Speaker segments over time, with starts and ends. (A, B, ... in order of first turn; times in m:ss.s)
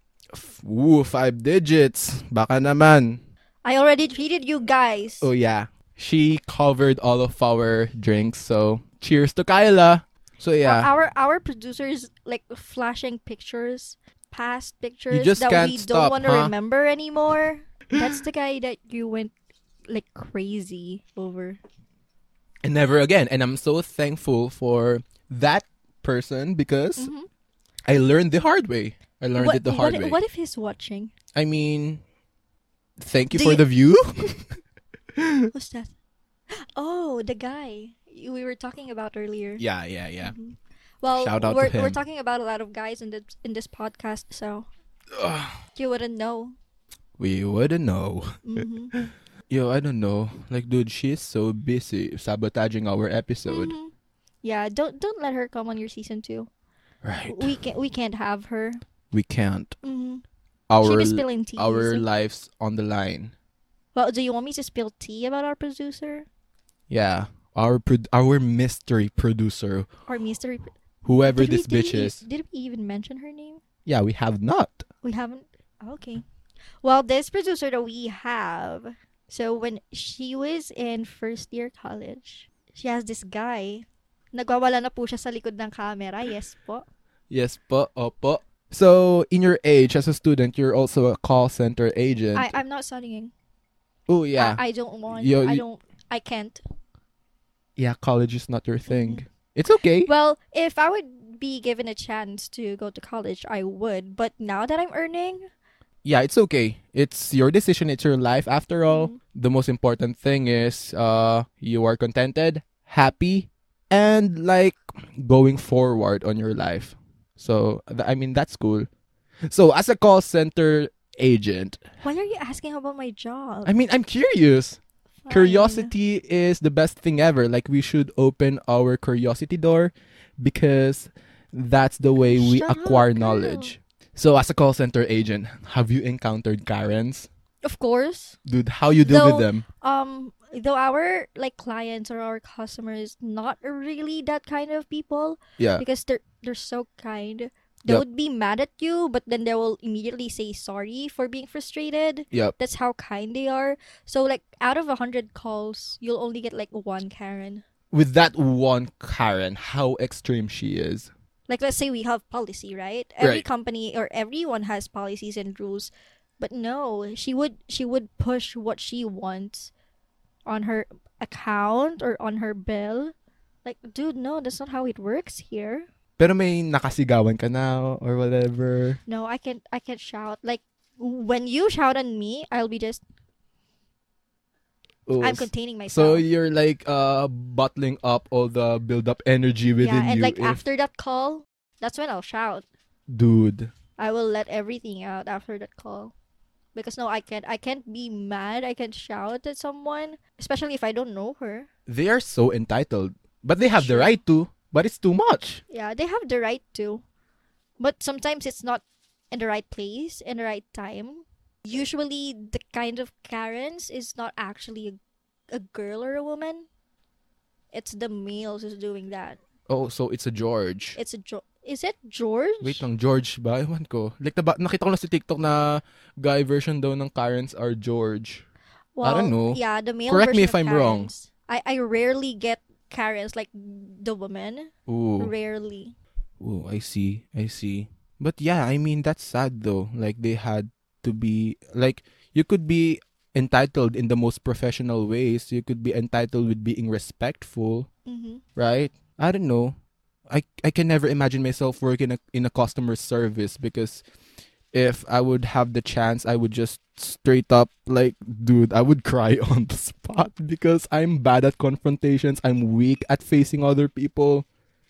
0:00.3-0:03.2 A
0:03.6-0:05.3 B
0:05.2-0:10.9 A
0:10.6-0:19.3 B
0:15.1-0:16.5 A
0:19.9-0:21.6 B
0:22.6-0:27.1 A
0:27.0-0:27.3 B
0:27.9-0:30.2 A
0:29.4-0:31.1 B
0:31.4-0:32.0 A
0:33.0-0:34.6 A
0:33.3-0:33.6 B
0:35.2-0:35.5 A
0:35.5-0:36.0 B
0:36.5-0:39.6 B
0:39.6-0:40.4 A
0:40.2-0:44.7 B
0:41.1-0:42.0 A
0:45.1-0:45.6 A
0:45.8-0:46.6 B
0:47.2-0:53.7 A
0:48.4-0:48.9 B
0:53.5-0:56.5 B
0:57.0-0:57.6 A
0:57.3-0:58.8 B
0:59.1-0:59.8 A
0:59.8-1:00.2 B
1:00.7-1:03.3 A
1:00.8-1:02.0 B
1:03.9-1:06.3 B
1:06.9-1:09.9 A
1:10.1-1:13.6 B
1:11.0-1:12.2 A
1:13.9-1:14.9 A
1:15.0-1:16.2 B
1:16.8-1:26.8 B
1:27.3-1:32.5 A
1:32.4-1:33.3 B
1:34.1-1:35.6 A
1:34.4-1:36.6 B
1:37.8-1:40.1 A
1:38.9-1:39.2 B
1:40.1-1:45.4 B
1:46.0-1:58.9 A
1:48.9-1:49.2 B
1:59.5-2:01.8 A
2:02.0-2:03.7 B
2:03.7-2:17.3 A
2:05.2-2:05.9 B
2:12.2-2:13.8 B
2:17.6-2:18.4 B
2:18.5-2:19.6 A
2:19.0-2:37.6 B
2:25.6-2:25.8 A
2:37.9-2:41.1 A
2:41.5-2:49.7 B
2:50.5-2:55.9 B
2:56.2-2:59.0 A
2:59.1-3:03.0 B
3:05.1-3:10.6 A
3:05.2-3:06.3 B
3:09.8-3:12.7 B
3:13.1-3:13.7 A
3:14.0-3:16.1 B
3:16.7-3:21.7 B
3:21.9-3:25.6 A
3:23.7-3:24.2 B
3:25.7-3:27.0 B
3:27.8-3:35.0 B
3:35.5-3:36.7 B
3:37.7-3:39.4 B
3:39.7-3:41.0 A
3:41.0-3:42.8 B
3:42.6-3:48.4 A
3:49.0-3:56.0 B
3:49.0-3:51.1 A
3:54.9-3:55.3 A
3:56.4-4:07.9 A
4:08.1-4:08.4 B
4:08.6-4:09.8 A
4:10.3-4:14.0 A
4:14.7-4:24.4 A